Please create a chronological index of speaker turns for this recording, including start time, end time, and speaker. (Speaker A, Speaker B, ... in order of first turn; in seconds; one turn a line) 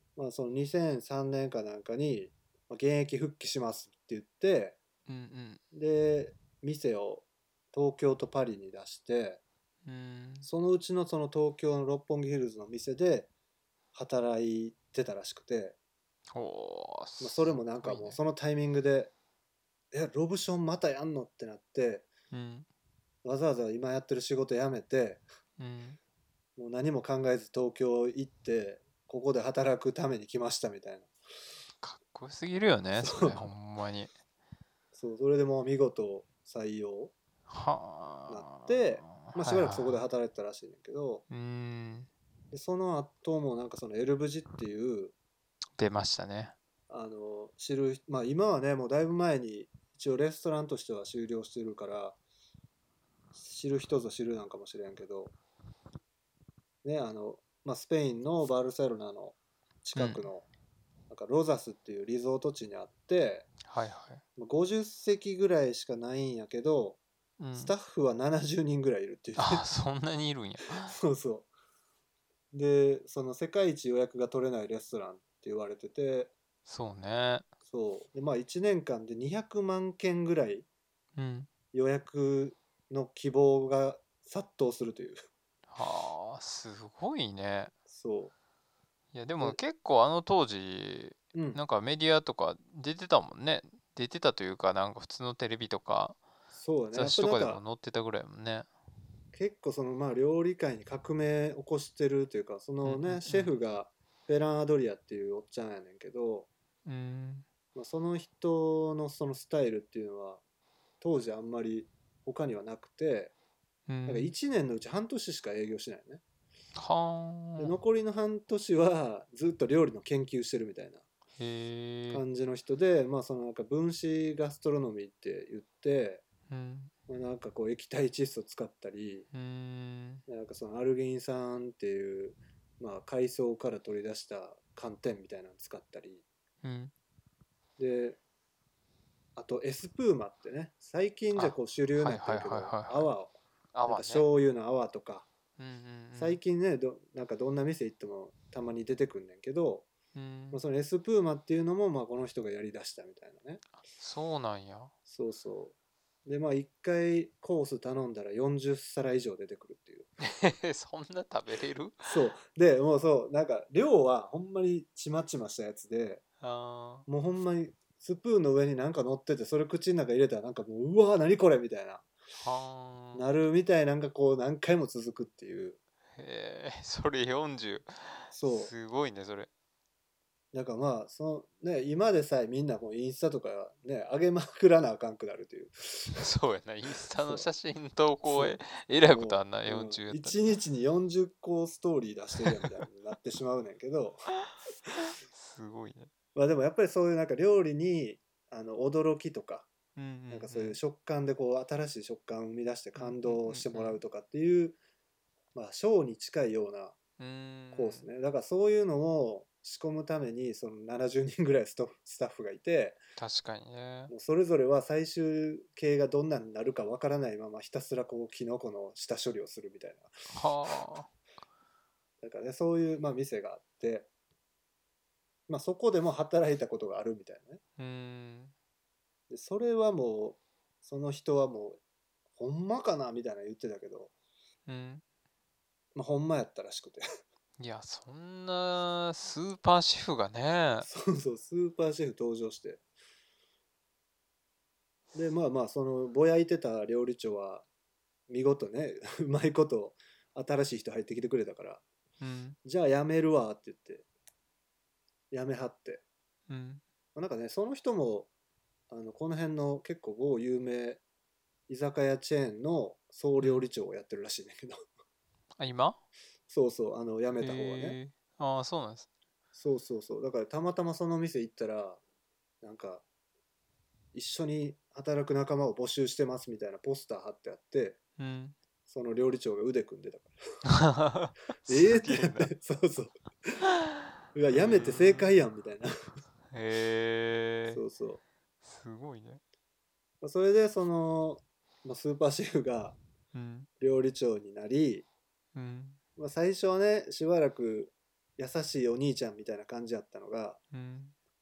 Speaker A: 0.2-4.8
Speaker B: 5.1-5.6
Speaker A: 5.7-9.4
Speaker B: 9.8-10.5
Speaker A: 10.4-13.3
Speaker A: 13.9-15.8
Speaker B: 16.3-18.2
Speaker A: 17.2-19.1
Speaker A: 19.9-22.1
Speaker B: 22.3-22.7
Speaker A: 23.2-25.2
Speaker B: 25.6-26.0
Speaker A: 26.6-31.1
Speaker B: 31.8-34.1
Speaker A: 33.0-33.5
Speaker A: 34.9-37.1
Speaker B: 37.5-40.0
Speaker A: 38.3-41.2
Speaker B: 41.3-42.1
Speaker A: 42.5-45.1
Speaker B: 45.8-46.5
Speaker A: 46.9-52.2
Speaker A: 53.3-55.3
Speaker A: 56.8-60.5
Speaker B: 60.0-60.2
Speaker A: 61.1-63.5
Speaker B: 63.6-64.2
Speaker A: 64.4-67.0
Speaker B: 67.4-67.7
Speaker A: 67.5-69.6
Speaker B: 69.4-71.0
Speaker A: 70.8-71.5
Speaker A: 72.5-76.3
Speaker B: 76.7-77.5
Speaker A: 77.7-80.7
Speaker B: 81.2-81.5
Speaker A: 81.7-85.2
Speaker B: 85.7-87.7
Speaker A: 87.9-88.3
Speaker B: 89.1-96.2
Speaker A: 91.3-91.6
Speaker A: 96.5-97.6
Speaker B: 96.9-98.7
Speaker A: 99.3-106.5
Speaker B: 102.8-103.5
Speaker B: 106.9-107.5
Speaker A: 107.7-110.4
Speaker A: 111.0-113.3
Speaker B: 113.9-114.3
Speaker A: 114.0-116.2
Speaker B: 116.7-117.8
Speaker A: 117.6-121.0
Speaker B: 121.4-122.2
Speaker A: 122.1-126.2
Speaker B: 126.5-126.9
Speaker A: 127.1-129.3
Speaker B: 129.3-130.2
Speaker A: 130.3-136.2
Speaker B: 136.6-136.9
Speaker A: 137.8-138.2
Speaker A: 139.4-143.3
Speaker B: 141.3-143.1
Speaker B: 143.7-144.3
Speaker A: 143.9-145.3
Speaker B: 145.6-146.4
Speaker A: 146.2-149.9
Speaker B: 150.1-150.6
Speaker A: 150.5-153.6
Speaker B: 153.9-154.9
Speaker A: 155.1-155.7
Speaker A: 156.3-160.1
Speaker B: 160.2-162.1
Speaker A: 162.0-166.2
Speaker B: 166.4-167.1
Speaker A: 167.1-172.1
Speaker B: 172.4-173.2
Speaker A: 173.1-175.8
Speaker B: 176.2-179.5
Speaker A: 178.3-178.7
Speaker A: 180.5-186.2
Speaker B: 186.1-190.4
Speaker A: 187.2-187.5
Speaker A: 188.3-194.2
Speaker B: 194.5-196.1
Speaker A: 196.3-199.7
Speaker B: 199.9-200.8
Speaker A: 200.3-204.8
Speaker B: 202.9-204.0
Speaker A: 205.6-206.9
Speaker B: 207.2-208.1
Speaker A: 207.7-213.0
Speaker B: 213.2-214.1
Speaker A: 214.1-220.1
Speaker B: 220.3-221.1
Speaker A: 222.2-224.1
Speaker A: 225.5-227.6
Speaker B: 227.8-228.5
Speaker A: 229.3-231.8
Speaker A: 232.4-234.1
Speaker B: 234.7-235.0
Speaker A: 235.9-237.0
Speaker B: 237.6-240.9
Speaker A: 240.8-242.8
Speaker A: 245.1-247.6
Speaker A: 248.3-251.8
Speaker B: 252.2-252.6
Speaker A: 252.6-254.1
Speaker A: 255.3-256.0
Speaker B: 256.5-256.8
Speaker A: 257.1-258.3
Speaker A: 258.9-261.0
Speaker A: 261.7-264.8
Speaker B: 263.4-263.7
Speaker B: 265.6-266.0
Speaker A: 266.5-268.0
Speaker B: 267.4-269.1
Speaker A: 269.6-272.0
Speaker A: 272.6-273.0
Speaker A: 274.1-278.0
Speaker B: 278.2-278.6
Speaker A: 278.9-280.4
Speaker B: 280.7-282.5
Speaker A: 281.7-283.2
Speaker A: 284.3-285.9
Speaker B: 284.5-285.3
Speaker B: 286.5-287.8
Speaker A: 287.7-288.2
Speaker B: 288.6-289.4
Speaker A: 290.2-293.0
Speaker B: 293.3-293.7
Speaker A: 293.8-295.1
Speaker B: 295.6-296.0
Speaker A: 296.2-300.6
Speaker B: 300.7-301.1